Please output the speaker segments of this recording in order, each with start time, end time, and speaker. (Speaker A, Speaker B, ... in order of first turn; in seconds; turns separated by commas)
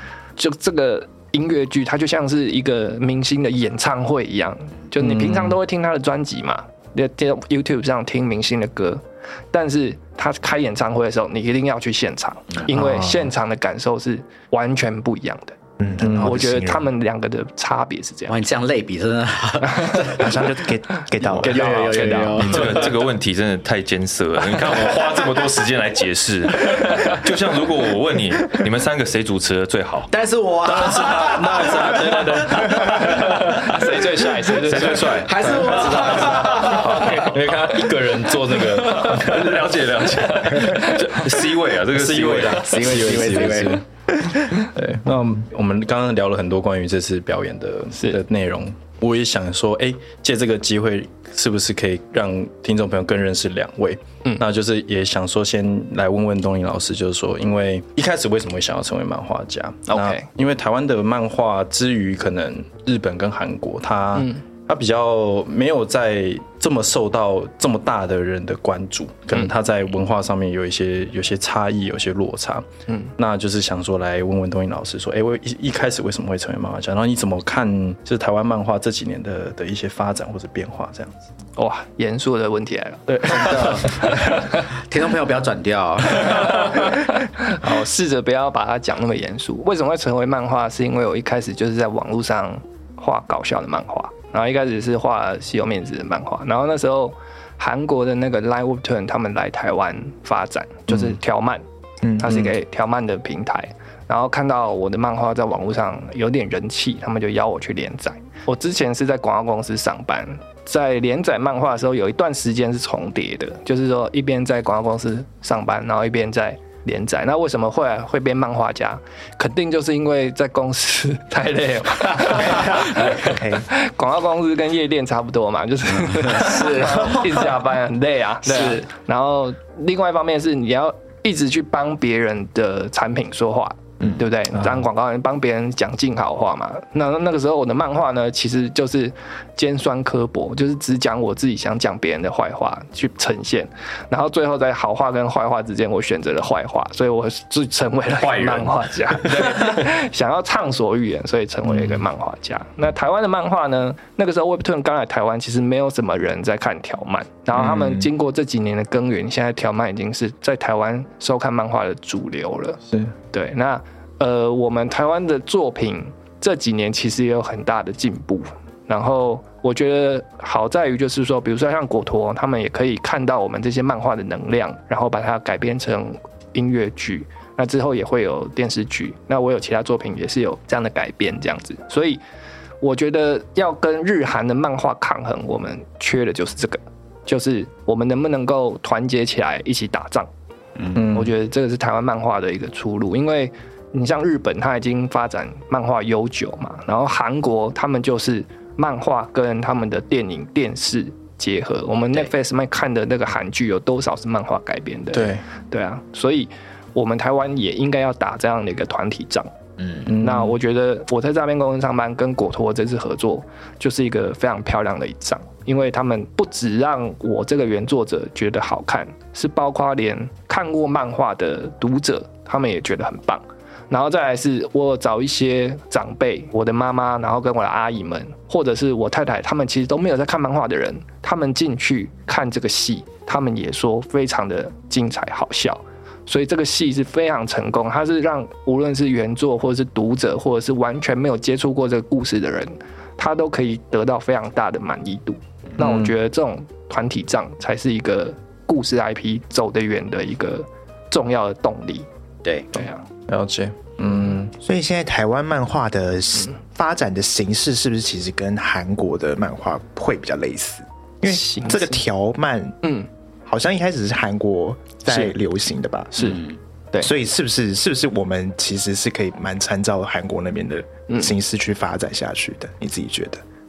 Speaker A: 0.4-15.6, Speaker B: 5.1-5.5, Speaker C: 12.7-13.3, Speaker C: 15.8-16.9, Speaker B: 16.0-16.3, Speaker A: 16.1-18.4, Speaker D: 18.3-20.5, Speaker C: 20.1-22.4, Speaker D: 21.2-23.0, Speaker A: 21.6-22.8, Speaker E: 22.4-30.1, Speaker D: 24.7-25.1, Speaker D: 30.1-33.4, Speaker B: 30.6-33.8, Speaker E: 33.0-33.6, Speaker A: 33.4-35.3, Speaker E: 34.6-36.7, Speaker D: 34.7-37.3, Speaker B: 34.9-39.7, Speaker A: 36.5-37.4, Speaker E: 39.0-42.9, Speaker A: 40.6-41.1, Speaker B: 41.9-72.6, Speaker D: 42.5-43.8, Speaker A: 47.9-48.2, Speaker A: 59.9-60.3, Speaker A: 64.1-64.4, Speaker B: 73.2-81.2, Speaker A: 81.6-84.0, Speaker B: 83.1-84.1, Speaker D: 83.2-86.8, Speaker A: 86.2-101.6, Speaker C: 102.0-102.5, Speaker A: 102.2-182.2, Speaker C: 122.5-123.6, Speaker D: 126.1-127.3, Speaker D: 128.5-128.8, Speaker E: 148.2-149.8, Speaker A: 182.8-190.3, Speaker D: 190.8-191.1, Speaker B: 190.9-191.3, Speaker A: 190.9-209.5, Speaker B: 205.1-205.4, Speaker D: 209.8-210.1, Speaker B: 210.1-210.6, Speaker A: 210.2-252.1, Speaker B: 245.8-246.1, Speaker A: 252.7-253.0, Speaker B: 253.3-254.5, Speaker C: 254.6-262.8, Speaker A: 261.2-262.0, Speaker A: 262.8-263.1, Speaker C: 263.5-266.3, Speaker D: 266.2-266.6, Speaker C: 267.0-273.4